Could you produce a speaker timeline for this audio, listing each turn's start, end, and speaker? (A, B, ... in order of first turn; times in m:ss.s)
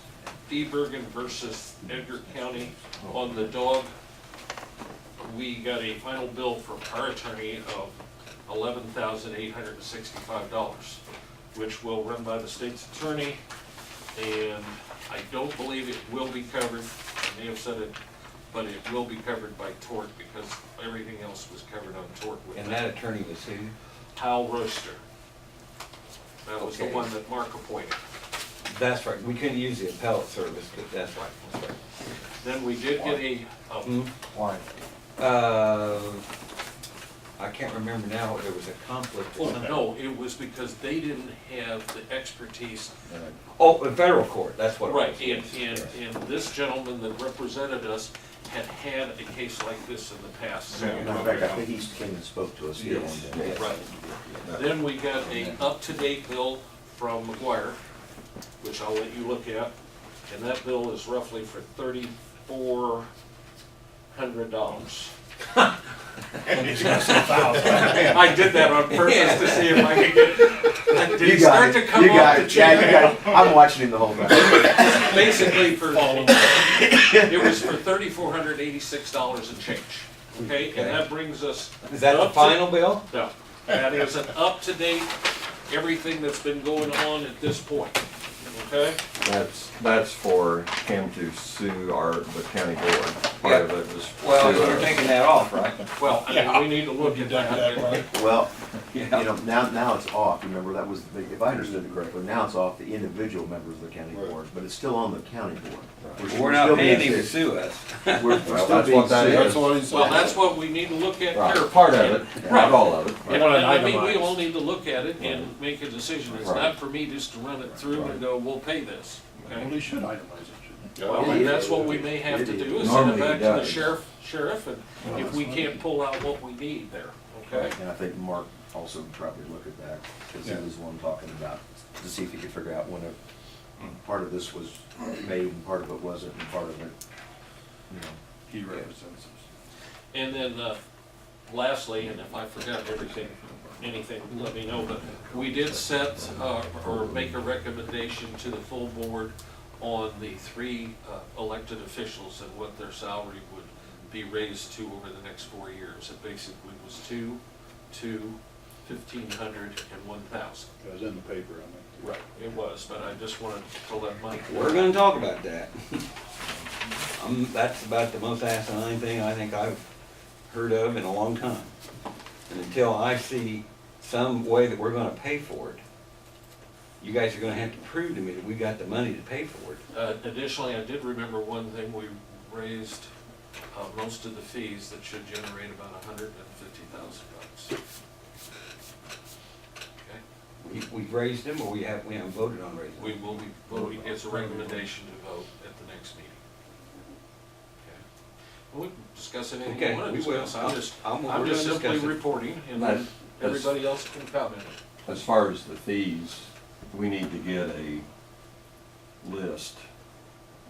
0:00.5-0:03.9 A
0:03.0-0:03.3 B
0:05.2-0:11.0 A
0:11.5-0:13.4 A
0:14.2-0:18.0 A
0:18.5-0:22.8 A
0:22.5-0:23.7 C
0:24.2-0:25.0 A
0:26.4-0:28.0 A
0:26.6-0:27.1 C
0:28.7-0:31.8 C
0:32.4-0:34.0 A
0:33.8-0:34.1 C
0:34.3-0:34.6 B
0:35.2-0:36.3 C
0:37.4-0:39.9 C
0:39.4-0:42.9 A
0:43.1-0:43.4 B
0:43.6-0:45.9 C
0:44.8-0:51.4 A
0:50.8-0:53.9 D
0:52.8-0:54.2 C
0:53.3-0:53.7 B
0:53.5-0:53.8 A
0:54.4-0:54.8 B
0:54.5-0:57.8 A
0:58.6-0:59.7 A
1:00.3-1:03.1 A
1:04.1-1:05.1 A
1:06.5-1:08.3 E
1:06.5-1:13.3 A
1:06.7-1:07.9 C
1:09.0-1:09.9 C
1:11.0-1:15.6 D
1:14.3-1:25.1 A
1:15.8-1:17.0 E
1:16.9-1:17.6 D
1:20.7-1:21.1 C
1:21.9-1:23.0 C
1:25.7-1:29.0 A
1:29.2-1:35.0 B
1:33.4-1:35.8 C
1:36.0-1:38.1 A
1:36.0-1:38.2 E
1:38.1-1:38.5 D
1:38.9-1:39.3 C
1:39.0-1:47.4 D
1:41.5-1:42.0 E
1:44.1-1:44.4 E
1:46.0-1:46.9 B
1:46.3-1:48.5 C
1:48.1-1:49.4 D
1:48.4-1:49.8 B
1:49.0-1:50.4 E
1:49.9-1:59.7 A
1:51.3-1:53.5 B
1:52.4-1:52.7 D
1:53.3-1:54.4 E
1:55.2-1:55.5 B
1:56.4-1:56.8 B
1:57.9-1:58.2 B
1:59.5-2:02.0 E
2:01.0-2:07.8 A
2:01.1-2:03.1 D
2:02.7-2:04.0 B
2:05.0-2:05.7 E
2:07.5-2:13.2 D
2:13.8-2:17.0 D
2:17.9-2:18.2 D
2:18.5-2:19.5 B
2:20.1-2:20.8 A
2:21.5-2:40.7 A
2:25.0-2:27.5 B
2:40.8-2:42.2 E
2:42.0-2:44.9 A
2:44.5-2:46.1 C
2:47.2-2:49.8 C
2:50.5-2:51.7 C
2:52.5-2:55.8 C
2:57.0-2:59.8 C
2:59.9-3:03.1 A
3:03.7-3:07.8 A
3:10.6-3:13.2 C
3:13.0-3:16.4 A
3:18.7-3:24.8 A
3:19.6-3:22.2 C
3:22.8-3:23.7 B
3:25.1-3:28.0 B
3:29.2-3:29.8 B